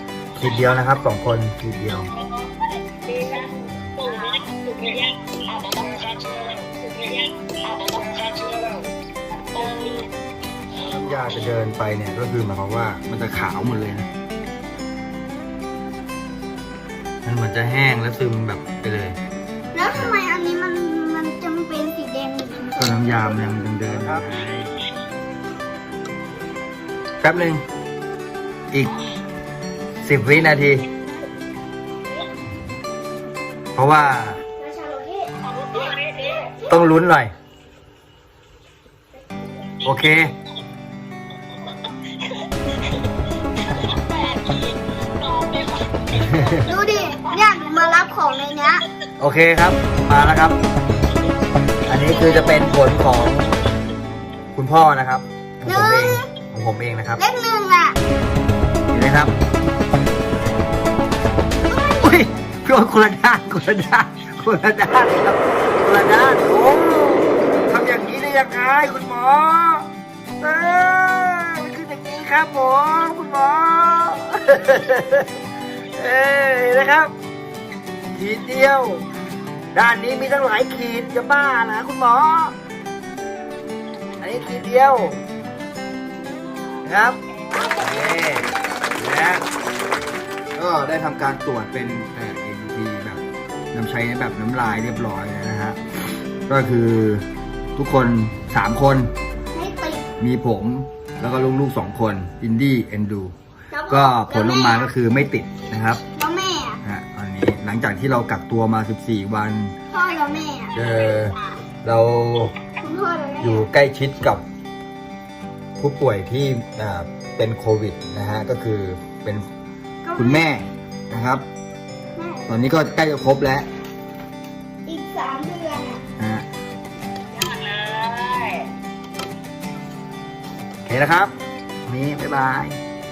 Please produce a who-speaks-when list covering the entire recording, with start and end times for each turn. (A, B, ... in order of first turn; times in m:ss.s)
0:00.4-0:02.1 A
0:02.1-0:02.5 B
0:03.0-0:08.8 B
0:09.5-0:10.1 B
0:10.7-0:14.1 A
0:17.2-0:19.2 A
0:19.7-0:23.5 C
0:22.8-0:24.7 A
0:27.2-0:27.6 A
0:30.0-0:30.8 A
0:33.7-0:34.4 A
0:34.6-0:35.3 C
0:35.4-0:36.5 B
0:36.7-0:37.3 A
0:39.8-0:40.3 A
0:41.9-0:48.0 B
0:46.1-0:46.7 A
0:46.6-0:48.8 C
0:49.2-0:50.6 A
0:51.9-0:53.5 A
0:52.2-0:52.5 B
0:54.5-0:57.2 A
0:55.6-0:56.3 C
0:57.2-0:58.0 C
0:58.9-0:59.3 A
1:01.7-1:02.3 C
1:02.0-1:09.9 A
1:10.4-1:15.4 A
1:15.9-1:17.1 A
1:18.1-1:19.0 A
1:19.7-1:22.6 A
1:24.2-1:25.2 A
1:26.5-1:28.6 B
1:26.8-1:27.2 A
1:27.7-1:29.4 A
1:30.5-1:35.8 A
1:36.5-1:39.1 A
1:39.5-1:40.1 C
1:40.2-1:43.3 A
1:43.7-1:44.9 C
1:43.9-1:46.0 A
1:46.2-1:46.8 C
1:46.8-1:49.7 A
1:49.9-1:51.6 C
1:50.7-1:52.5 A
1:52.8-1:53.7 C
1:53.4-1:54.4 A
1:55.8-1:59.5 A
2:00.0-2:00.5 C
2:00.2-2:01.4 A
2:02.1-2:02.5 C
2:02.5-2:03.7 A
2:04.8-2:06.0 C
2:06.2-2:06.4 A
2:07.3-2:08.7 B
2:10.8-2:11.3 A
2:11.9-2:12.8 A